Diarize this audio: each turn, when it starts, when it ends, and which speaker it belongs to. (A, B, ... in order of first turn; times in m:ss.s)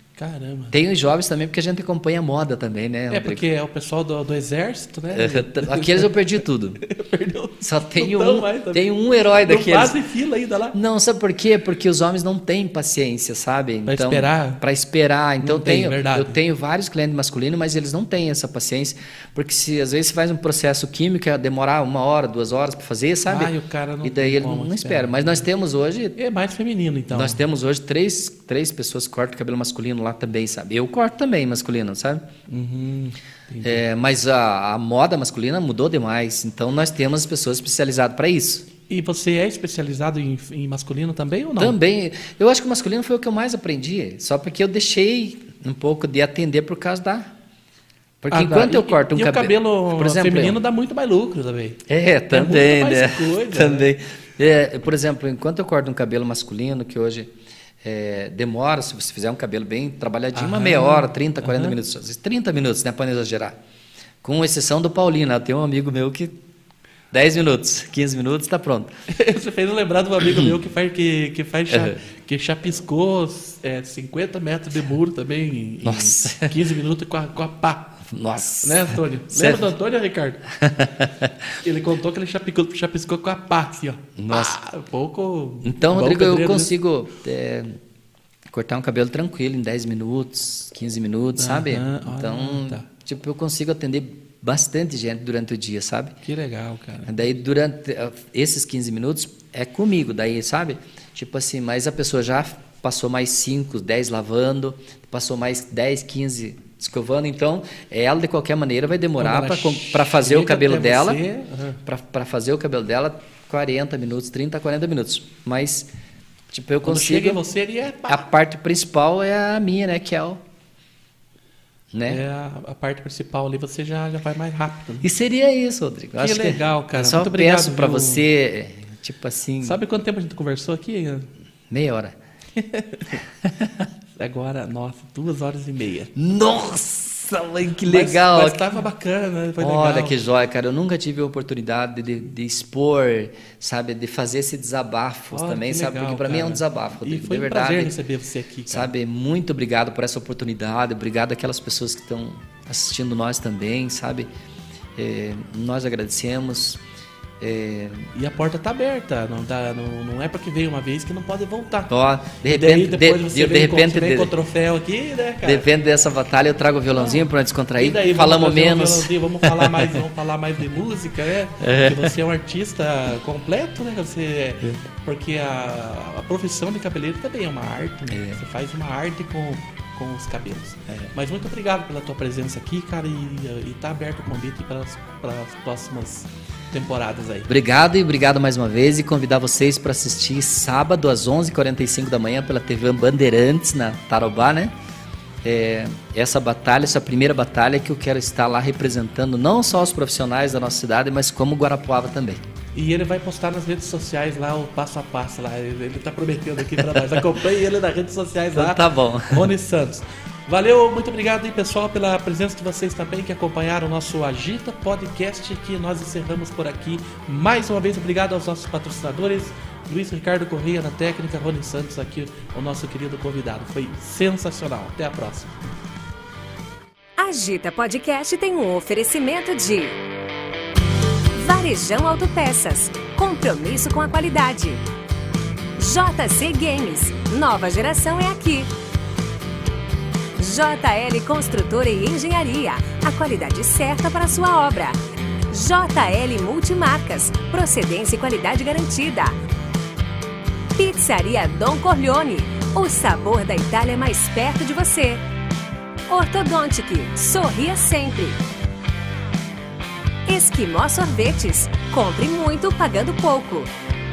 0:00.2-0:00.7 A
0:00.7-0:03.4 B
0:03.1-0:10.8 A
0:05.1-0:06.8 B
0:07.6-0:10.0 B
0:10.7-0:26.2 B
0:13.9-0:14.6 A
0:15.4-0:16.4 A
0:23.3-0:25.4 A
0:26.2-0:27.4 A
0:27.1-0:32.2 B
0:32.5-0:33.8 A
0:33.6-0:38.7 B
0:38.9-0:41.8 A
0:41.6-0:47.3 B
0:48.2-0:50.6 B
0:48.3-0:51.8 A
0:51.9-0:57.3 B
0:52.3-0:53.9 A
0:57.8-1:03.6 B
1:00.3-1:01.8 A
1:04.2-1:06.3 B
1:07.1-1:08.9 B
1:09.1-1:18.0 A
1:11.7-1:12.0 B
1:15.8-1:16.6 B
1:18.0-1:19.7 B
1:18.6-1:20.4 A
1:20.6-1:21.3 B
1:21.6-1:26.7 A
1:24.2-1:24.6 B
1:25.6-1:27.8 B
1:28.5-1:36.2 B
1:31.4-1:32.8 A
1:36.2-1:37.1 A
1:37.0-1:51.2 B
1:49.2-1:51.8 A
1:51.8-1:55.9 B
1:56.5-1:57.4 B
1:56.8-1:58.2 A
1:58.1-2:00.4 B
2:01.9-2:02.2 B
2:02.1-2:05.1 A
2:05.0-2:09.8 B
2:06.2-2:08.2 A
2:09.6-2:11.3 A
2:11.7-2:12.1 B
2:12.6-2:13.2 A
2:14.2-2:16.1 A
2:16.1-2:18.8 B
2:17.8-2:20.2 A
2:19.6-2:27.9 B
2:25.3-2:28.9 A
2:28.7-2:34.3 B
2:35.0-2:36.8 B
2:37.4-2:38.1 B
2:38.1-2:41.9 A
2:41.9-2:44.3 B
2:42.4-2:45.7 A
2:45.4-2:49.9 B
2:46.9-3:07.5 A
2:51.6-2:52.1 B
2:58.1-2:58.4 B
3:07.5-3:14.7 B
3:15.4-3:22.4 B
3:22.7-3:45.6 A
3:28.5-3:29.5 B
3:47.2-3:50.0 C
3:51.3-3:54.8 C
3:55.8-3:58.7 C
4:00.4-4:05.0 C
4:05.5-4:09.4 C
4:10.8-4:15.2 C
4:16.1-4:18.4 C
4:20.2-4:23.7 C